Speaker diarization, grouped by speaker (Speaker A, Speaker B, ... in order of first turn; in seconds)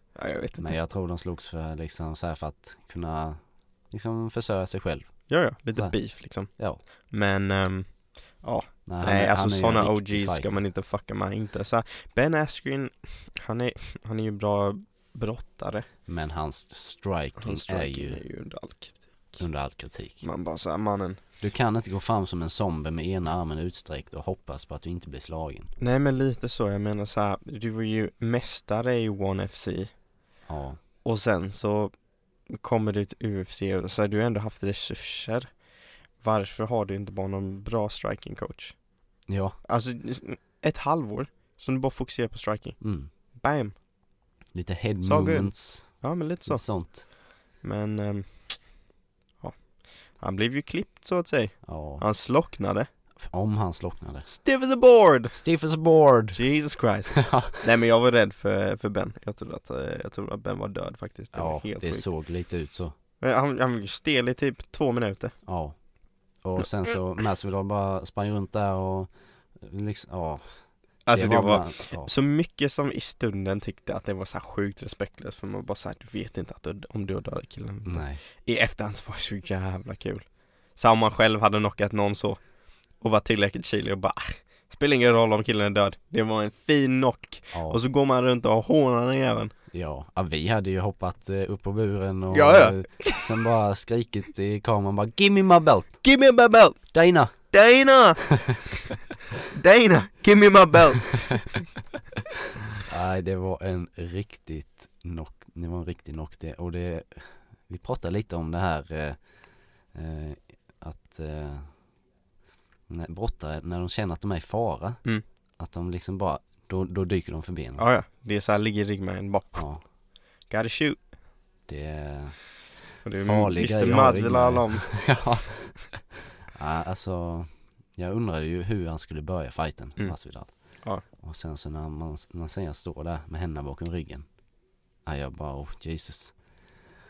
Speaker A: 0.1-0.7, 5.3-15.9, 17.4-19.4, 20.2-21.2, 25.8-29.9, 31.0-31.9, 32.5-35.5, 36.2-38.8, 39.6-43.7, 45.0-47.0, 47.6-48.6, 50.2-52.9, 54.2-55.4, 56.3-62.1, 63.2-65.3, 71.0-80.2, 80.8-82.4, 83.0-89.5, 92.3-93.3, 96.0-96.9, 97.4-98.3, 99.5-101.6, 117.8-119.6, 120.5-121.0, 123.0-125.1
Speaker B: 0.6-6.0, 6.5-6.8, 8.8-10.6, 16.1-18.2, 19.4-20.2, 21.4-25.7, 30.5-30.8, 39.3-39.6, 42.8-43.1, 44.5-47.0, 51.6-52.0, 53.2-54.3, 55.3-56.4, 57.1-57.6, 61.3-62.9, 65.5-65.8, 66.4-70.6, 71.1-72.1, 77.8-78.2, 87.5-87.8, 89.7-96.0, 96.9-97.3, 102.8-109.2, 109.9-111.8, 112.9-115.0, 115.6-117.8, 119.5-119.8, 121.7-122.5, 123.1-125.8, 126.5-130.5, 131.1-134.2, 135.1-136.4